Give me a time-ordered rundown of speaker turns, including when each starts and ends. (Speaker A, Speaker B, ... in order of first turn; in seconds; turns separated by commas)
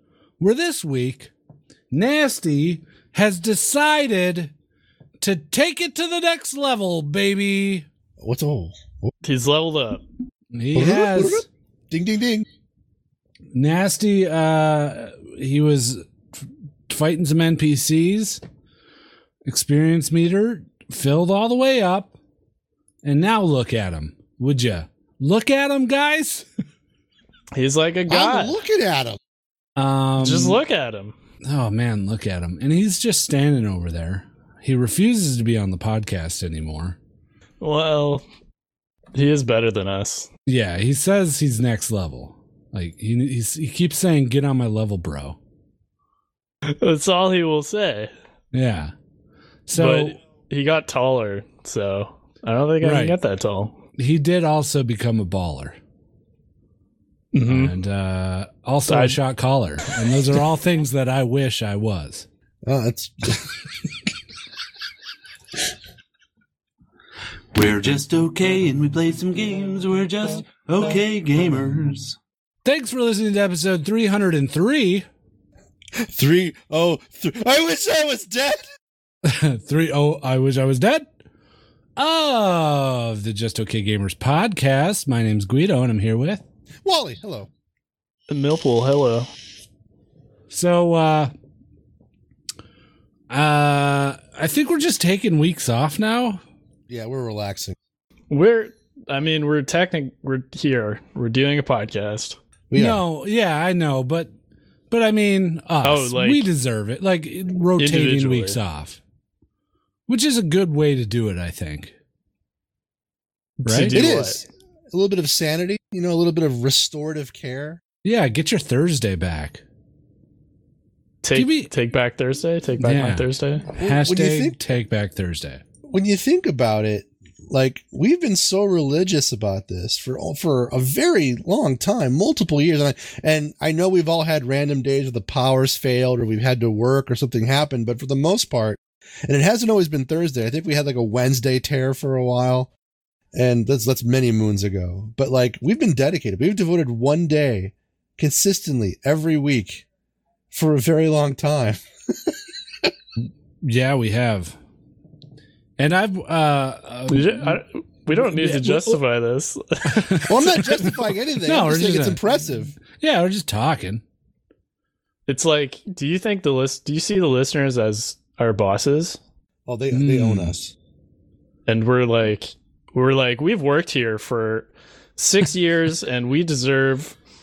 Speaker A: 0.4-1.3, Speaker A: 1.9-4.5, Speaker A: 5.2-7.8, Speaker B: 8.2-9.1, Speaker C: 9.2-10.0, Speaker A: 10.5-11.4, Speaker B: 10.7-12.4, Speaker A: 13.5-16.0, Speaker A: 16.9-18.4, Speaker A: 19.4-22.1, Speaker A: 23.0-26.4, Speaker C: 27.5-28.6, Speaker B: 28.1-29.2, Speaker A: 29.8-30.6, Speaker C: 30.2-31.1, Speaker A: 31.4-37.0, Speaker C: 37.6-38.2, Speaker C: 39.1-40.3, Speaker A: 40.5-45.4, Speaker C: 46.7-48.1, Speaker A: 48.5-48.9, Speaker A: 49.7-50.1, Speaker C: 49.7-53.8, Speaker A: 52.8-53.1, Speaker A: 54.0-55.8, Speaker C: 57.3-57.7, Speaker A: 57.4-62.3, Speaker C: 58.9-59.2, Speaker B: 62.7-63.5, Speaker D: 67.5-72.1, Speaker A: 72.6-75.0, Speaker B: 75.9-78.6, Speaker A: 79.2-81.1, Speaker A: 82.0-86.4, Speaker B: 86.8-87.5, Speaker C: 88.3-89.3, Speaker A: 90.5-91.3, Speaker A: 93.3-96.4, Speaker B: 96.9-97.8, Speaker C: 98.3-102.4, Speaker B: 102.7-103.0, Speaker A: 102.8-104.3, Speaker A: 104.9-109.0, Speaker C: 105.8-106.5, Speaker C: 107.8-108.6, Speaker A: 110.1-111.9, Speaker C: 113.6-114.4, Speaker A: 113.7-113.9, Speaker B: 113.9-117.8, Speaker A: 118.0-119.6, Speaker C: 121.2-123.6, Speaker A: 121.3-121.7, Speaker A: 122.8-125.6, Speaker B: 123.7-124.6, Speaker B: 125.9-142.7, Speaker B: 143.3-149.8, Speaker B: 150.5-152.4, Speaker A: 153.6-154.6, Speaker A: 155.8-157.6, Speaker C: 157.1-160.1, Speaker A: 158.1-158.9, Speaker A: 159.8-162.2, Speaker B: 160.3-162.8, Speaker A: 162.8-164.0, Speaker C: 165.3-169.2, Speaker B: 169.7-170.7, Speaker A: 169.9-170.5, Speaker C: 171.7-177.2